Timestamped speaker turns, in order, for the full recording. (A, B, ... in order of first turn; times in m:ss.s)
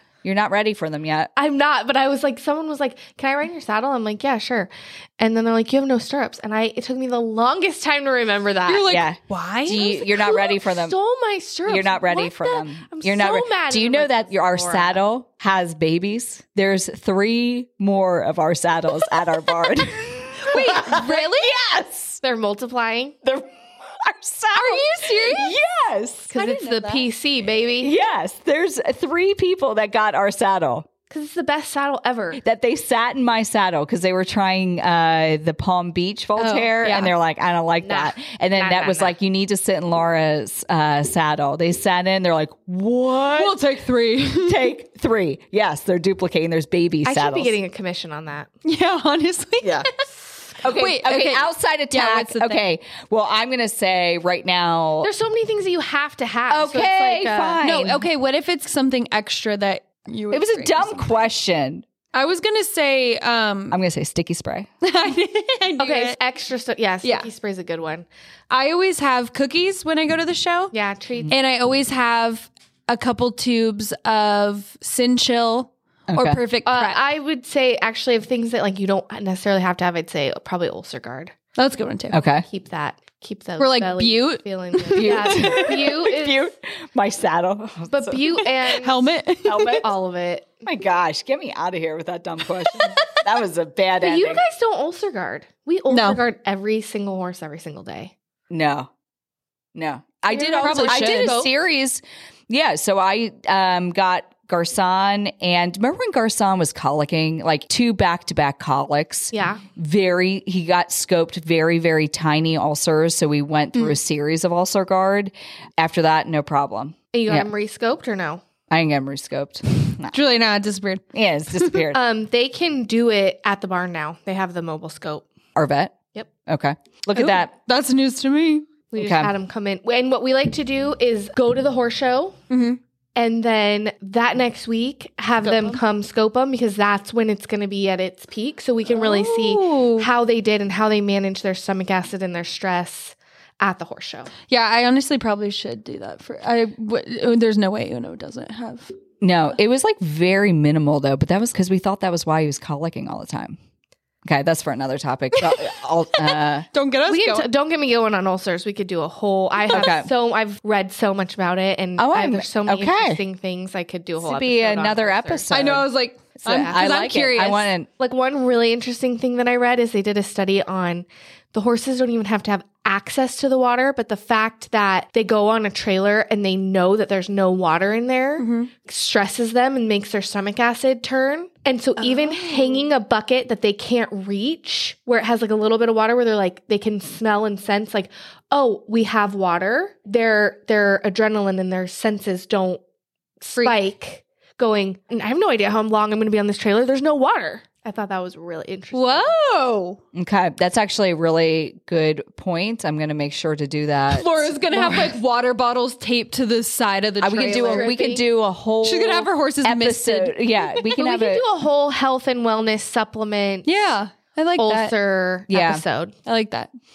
0:00.2-0:01.3 A
0:01.4-0:09.0 B
0:08.6-0:09.8 C
0:08.9-0:11.0 A
0:09.7-0:15.0 B
0:11.7-0:22.2 A
0:20.4-0:21.5 C
0:22.2-0:23.2 B
0:24.0-0:26.6 A
0:24.5-0:25.6 C
0:26.3-0:28.0 B
0:26.4-0:27.0 C
0:27.8-0:30.9 A
0:31.1-0:32.4 B
0:32.4-0:43.6 A
0:36.4-0:37.1 C
0:37.8-0:39.2 B
0:43.3-0:44.7 C
0:44.4-0:47.6 A
0:47.0-0:48.5 B
0:48.6-0:52.6 C
0:49.6-0:49.9 A
0:50.6-0:55.1 A
0:55.0-0:57.6 B
0:56.5-0:58.0 A
0:57.6-1:01.3 C
1:00.3-1:01.8 A
1:02.1-1:03.8 C
1:03.7-1:04.7 A
1:04.8-1:06.2 C
1:05.8-1:08.1 B
1:08.5-1:10.7 C
1:10.7-1:11.3 B
1:11.3-1:17.0 C
1:16.1-1:16.4 A
1:16.6-1:21.3 B
1:21.6-1:22.2 C
1:22.1-1:22.4 A
1:22.5-1:26.4 B
1:23.6-1:25.7 C
1:25.0-1:28.4 A
1:27.9-1:29.0 B
1:28.7-1:29.9 C
1:29.4-1:29.8 A
1:29.8-1:30.6 B
1:30.6-1:34.4 A
1:34.0-1:38.1 B
1:35.9-1:36.2 C
1:38.5-1:38.9 A
1:39.7-1:57.5 A
1:40.3-1:41.5 C
1:40.3-1:41.5 B
1:49.3-1:49.6 B
1:57.1-1:58.4 B
1:58.7-2:00.2 A
1:59.8-2:01.8 C
2:01.1-2:02.0 A
2:01.9-2:05.2 B
2:05.5-2:05.9 A
2:06.4-2:07.5 A
2:07.2-2:08.6 C
2:08.9-2:12.4 B
2:09.0-2:09.3 A
2:12.5-2:12.8 C
2:13.2-2:24.3 B
2:15.4-2:15.8 C
2:18.8-2:20.1 C
2:24.5-2:28.9 C
2:29.2-2:33.6 A
2:34.2-2:36.6 A
2:35.3-2:37.5 C
2:37.0-2:45.5 B
2:39.7-2:40.1 A
2:42.0-2:43.2 A
2:44.2-2:45.9 A
2:45.5-2:47.7 C
2:46.4-2:47.9 A
2:48.0-3:12.8 B
2:58.4-2:58.7 C
3:02.0-3:02.9 C
3:13.4-3:19.3 B
3:13.5-3:13.8 C
3:18.9-3:20.0 C
3:20.1-3:25.1 A
3:24.1-3:28.0 C
3:27.2-3:31.4 A
3:27.4-3:28.2 B
3:28.8-3:30.3 C
3:30.8-3:33.7 B
3:33.6-3:34.9 C
3:34.6-3:36.1 B
3:35.5-3:35.8 A
3:36.2-3:36.7 C